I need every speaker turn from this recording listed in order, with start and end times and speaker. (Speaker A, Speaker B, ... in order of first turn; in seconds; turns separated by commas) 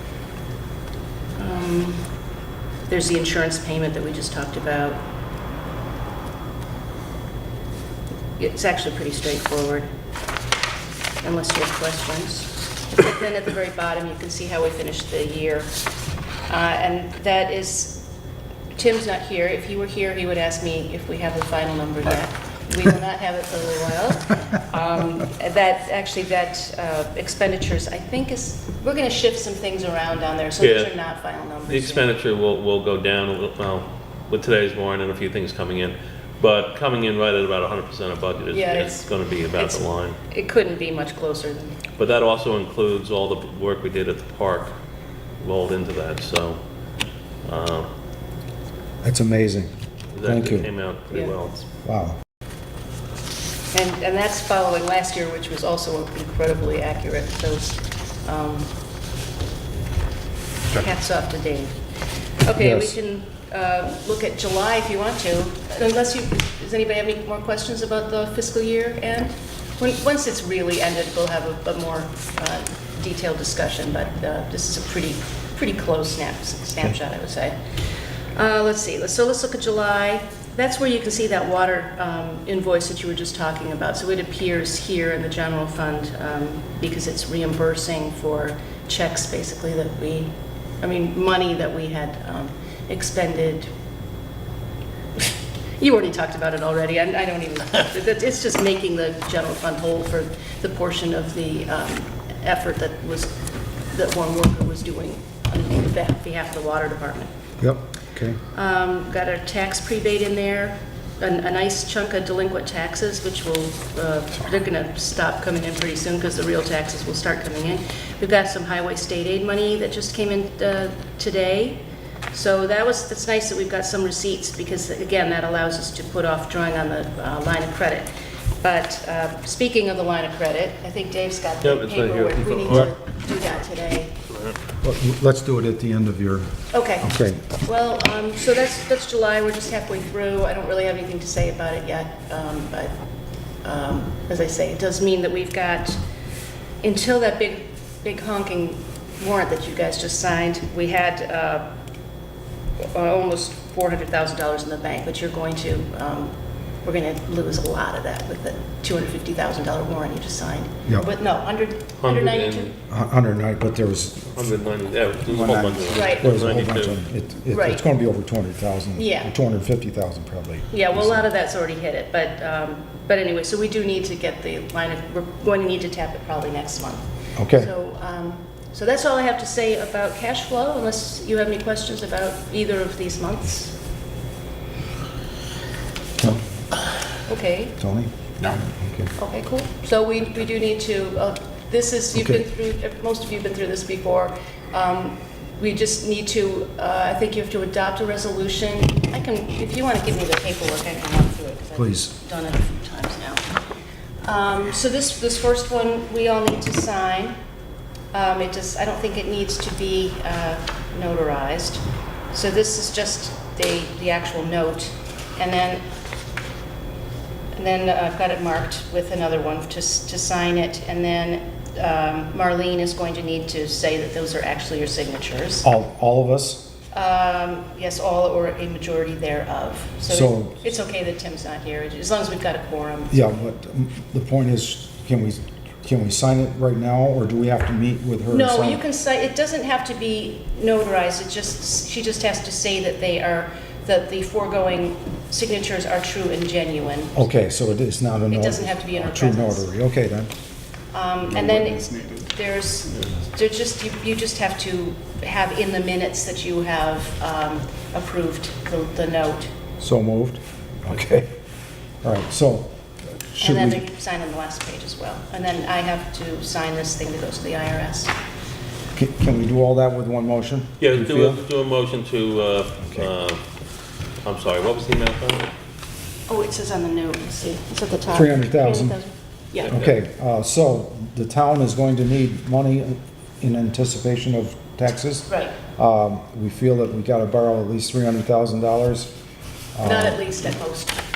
Speaker A: 1.4-2.0, Speaker A: 2.9-5.0, Speaker A: 8.4-9.9, Speaker A: 11.2-15.7, Speaker A: 16.5-18.1, Speaker A: 18.7-32.1, Speaker B: 30.6-30.9, Speaker B: 31.7-40.2, Speaker A: 38.5-41.8, Speaker B: 42.0-44.7, Speaker B: 45.4-46.6, Speaker B: 47.4-47.9, Speaker C: 49.0-49.7, Speaker B: 50.1-51.6, Speaker C: 50.2-50.7, Speaker C: 51.8-52.2, Speaker A: 53.7-58.7, Speaker A: 60.7-61.7, Speaker A: 62.4-77.6, Speaker C: 62.6-62.9, Speaker A: 78.3-93.7, Speaker A: 95.2-103.4, Speaker A: 103.9-107.3, Speaker C: 107.6-108.4, Speaker A: 108.5-128.1, Speaker A: 128.6-134.1, Speaker B: 131.6-132.9, Speaker B: 134.3-134.6, Speaker C: 134.8-136.5, Speaker A: 136.7-142.9, Speaker C: 137.0-137.4, Speaker A: 143.6-146.0, Speaker A: 146.8-151.7, Speaker A: 152.8-162.7, Speaker B: 162.0-162.7, Speaker C: 162.9-164.4, Speaker B: 164.3-167.0, Speaker C: 165.3-171.3, Speaker A: 165.9-166.3, Speaker A: 167.5-167.8, Speaker A: 169.0-169.3, Speaker A: 170.7-183.8, Speaker C: 177.3-177.7, Speaker A: 187.2-187.8, Speaker C: 187.8-189.1, Speaker A: 189.2-203.5, Speaker C: 192.1-192.4, Speaker C: 201.8-202.1, Speaker A: 204.2-207.3, Speaker A: 208.1-215.8, Speaker A: 217.5-225.7, Speaker C: 225.6-226.7, Speaker A: 226.9-233.2, Speaker C: 230.1-230.6, Speaker C: 233.1-238.8, Speaker A: 238.3-247.3, Speaker C: 247.1-250.3, Speaker A: 248.3-249.7, Speaker A: 250.9-259.5, Speaker C: 259.8-261.3, Speaker C: 262.0-262.7, Speaker C: 263.3-263.8, Speaker A: 263.4-268.1, Speaker C: 268.9-271.4, Speaker B: 270.8-273.4, Speaker B: 274.2-275.5, Speaker A: 276.3-279.8, Speaker C: 278.1-279.0, Speaker B: 279.6-279.9, Speaker C: 279.7-289.1, Speaker A: 285.3-285.6, Speaker C: 289.8-290.2, Speaker A: 289.8-291.0